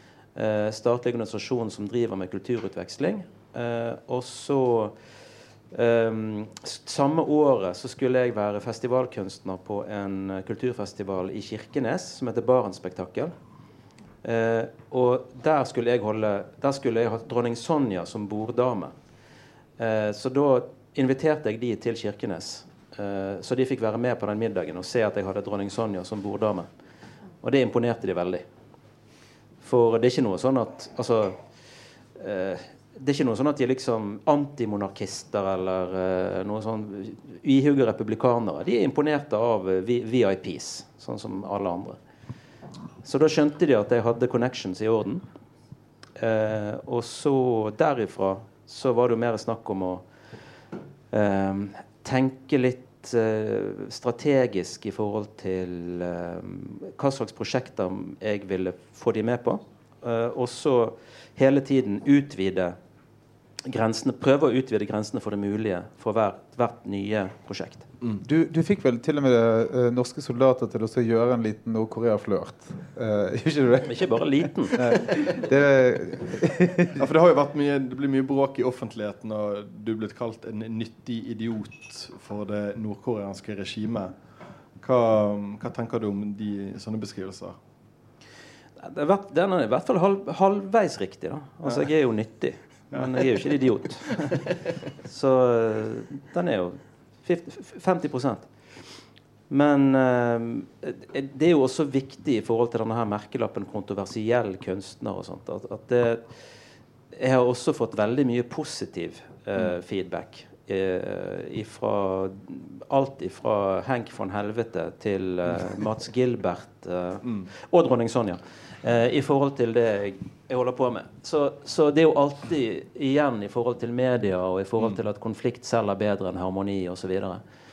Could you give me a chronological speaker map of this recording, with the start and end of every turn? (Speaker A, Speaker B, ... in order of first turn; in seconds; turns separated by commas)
Speaker A: 0.3-5.0, Speaker A: 5.7-13.3, Speaker A: 14.2-18.9, Speaker A: 19.8-26.7, Speaker A: 27.4-28.4, Speaker A: 29.6-31.4, Speaker A: 32.1-42.0, Speaker A: 43.0-45.2, Speaker A: 46.2-50.0, Speaker A: 51.1-62.8, Speaker A: 63.6-67.9, Speaker B: 68.2-74.0, Speaker A: 73.8-74.8, Speaker B: 74.7-77.1, Speaker C: 77.0-84.2, Speaker C: 84.8-87.5, Speaker A: 88.8-94.5, Speaker A: 95.0-98.5, Speaker A: 99.5-106.3, Speaker A: 107.1-127.4, Speaker C: 117.2-117.5